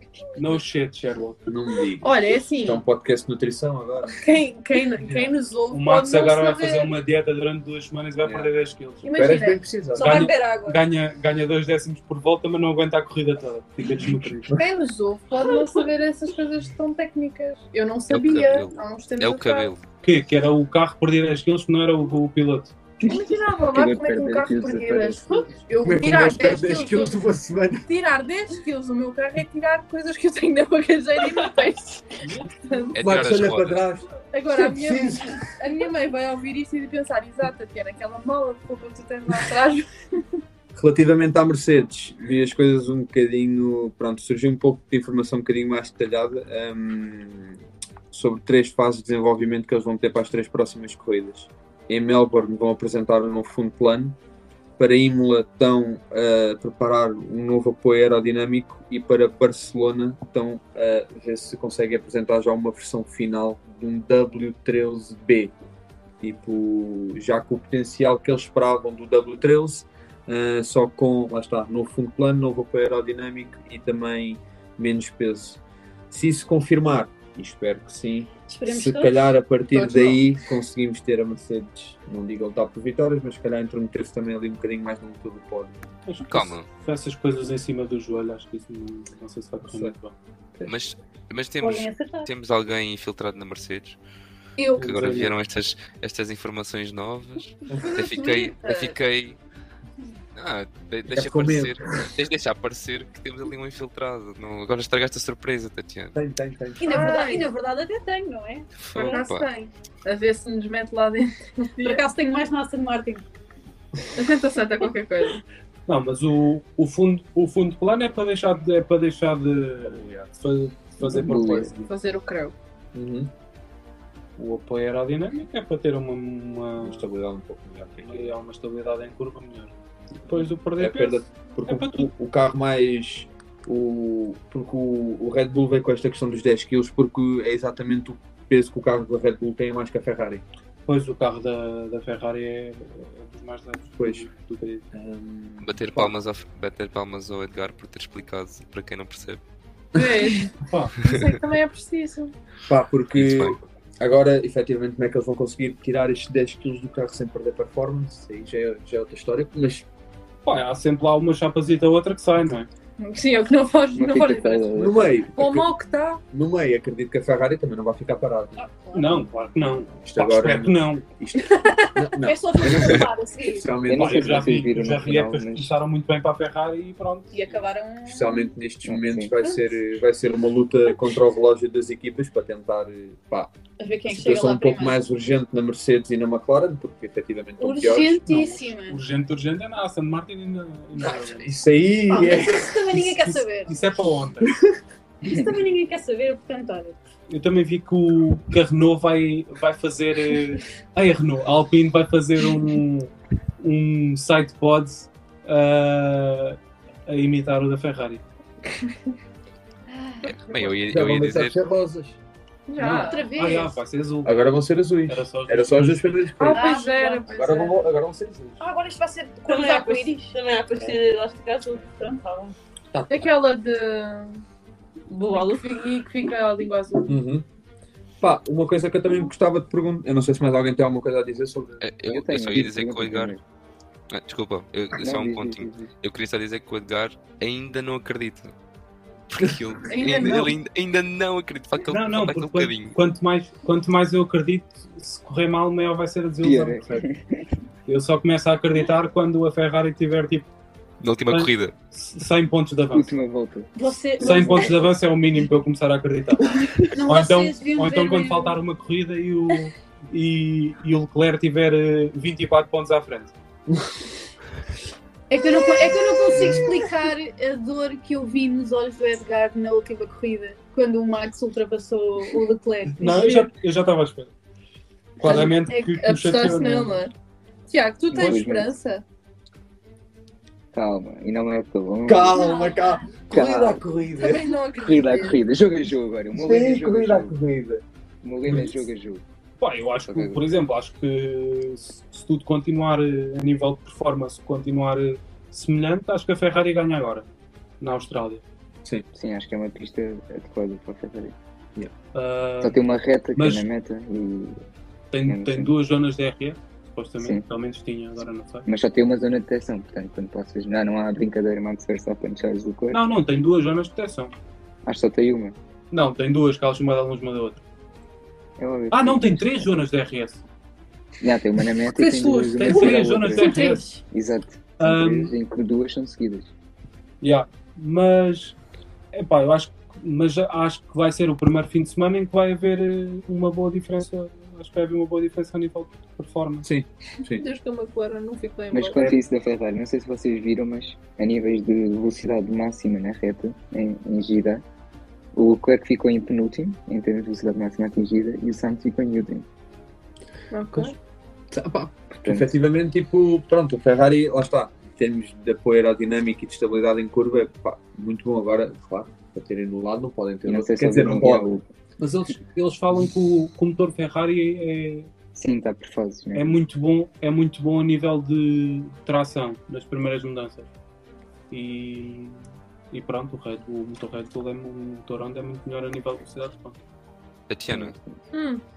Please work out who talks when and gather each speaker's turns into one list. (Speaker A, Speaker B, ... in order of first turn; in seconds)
Speaker A: 0.3-1.4, 5.7-9.3, 9.9-14.5, 20.0-22.7, 86.0-90.1, 94.8-95.3, 115.9-121.9, 124.4-127.1, 128.0-129.7, 130.3-132.1, 140.9-144.8, 150.6-150.9, 160.4-162.7, 168.9-171.1, 173.9-177.4, 188.2-191.5, 193.6-194.5, 197.3-208.2, 212.8-216.5, 241.9-247.1, 247.9-250.5, 251.3-253.1, 254.2-256.4, 257.0-263.3, 273.0-274.3, 275.2-276.9, 289.6-297.3, 297.8-298.4, 302.1-302.8, 303.3-303.6, 305.1-308.6, 312.9-314.3, 315.9-317.6, 318.9-320.4, 322.4-323.8, 324.8-325.3, 327.2-328.6, 329.1-336.7, 362.0-365.1, 366.3-370.7, 371.5-376.8
Speaker B: 1.5-4.2, 8.2-8.5, 9.1-10.3, 25.8-27.8, 33.0-35.5, 40.7-47.6, 48.1-54.2, 54.8-65.5, 66.2-85.8, 89.6-89.9, 97.7-98.0, 101.1-102.1, 106.1-107.2, 119.8-120.3, 122.9-123.3, 126.8-128.3, 130.8-140.4, 144.0-144.3, 144.9-146.1, 150.0-150.3, 152.7-159.8, 164.8-165.7, 166.3-168.6, 170.0-174.6, 178.0-183.5, 184.1-188.3, 191.0-193.4, 210.8-212.2, 214.2-216.7, 217.3-218.6, 222.9-223.3, 227.1-227.4, 228.2-231.8, 266.3-266.6, 275.2-275.5, 282.1-284.5, 286.3-287.8, 288.4-288.8, 336.6-337.4, 351.5-361.5
Speaker C: 2.0-2.8, 4.2-6.9, 9.0-9.6, 14.5-19.7, 23.0-27.2, 27.8-33.0, 34.3-39.9, 79.7-80.1, 106.8-107.5, 108.9-112.0, 114.2-115.4, 121.9-122.5, 149.9-152.3, 163.0-166.2, 212.7-213.3, 216.4-217.8, 223.1-224.4, 225.3-227.2, 239.9-240.5, 275.2-277.1, 277.7-279.0, 284.1-285.4, 337.3-339.1, 350.5-350.9, 378.3-378.6
Speaker D: 9.9-10.8, 78.5-79.3, 91.6-92.3, 94.6-95.0, 97.8-98.9, 106.8-109.2, 111.8-113.2, 168.6-169.2, 171.8-173.8, 177.3-178.5, 183.8-185.0, 187.6-189.0, 192.1-193.7, 195.2-197.0, 209.9-210.4, 212.9-213.8, 216.5-217.3, 218.6-220.4, 240.1-240.4, 253.7-254.7, 256.9-258.6, 265.3-273.5, 282.3-283.0, 322.2-324.0
Speaker E: 18.1-19.8, 32.9-33.8, 86.3-86.7, 90.7-94.0, 94.8-99.4, 100.3-106.2, 108.8-109.5, 145.6-149.4, 151.1-151.3, 153.1-153.6, 210.2-211.6, 231.8-233.3, 234.1-238.5, 239.3-242.9, 251.0-251.7, 377.5-377.9
Speaker F: 23.0-25.2, 121.0-121.7, 163.9-165.2, 173.8-175.7, 178.8-179.3, 232.1-233.4, 234.9-235.9, 246.4-247.4, 252.9-254.9, 278.1-278.7, 280.7-282.5, 283.3-283.8, 284.8-287.4, 288.2-289.2, 290.1-290.4, 299.1-301.4, 302.6-304.6, 305.2-305.7, 308.6-313.0, 314.9-315.6, 318.6-319.8, 321.2-326.5, 338.7-344.6, 345.3-349.5, 352.2-352.6, 360.4-361.6, 365.3-366.6, 377.7-378.2
Speaker G: 219.4-222.6, 225.1-225.8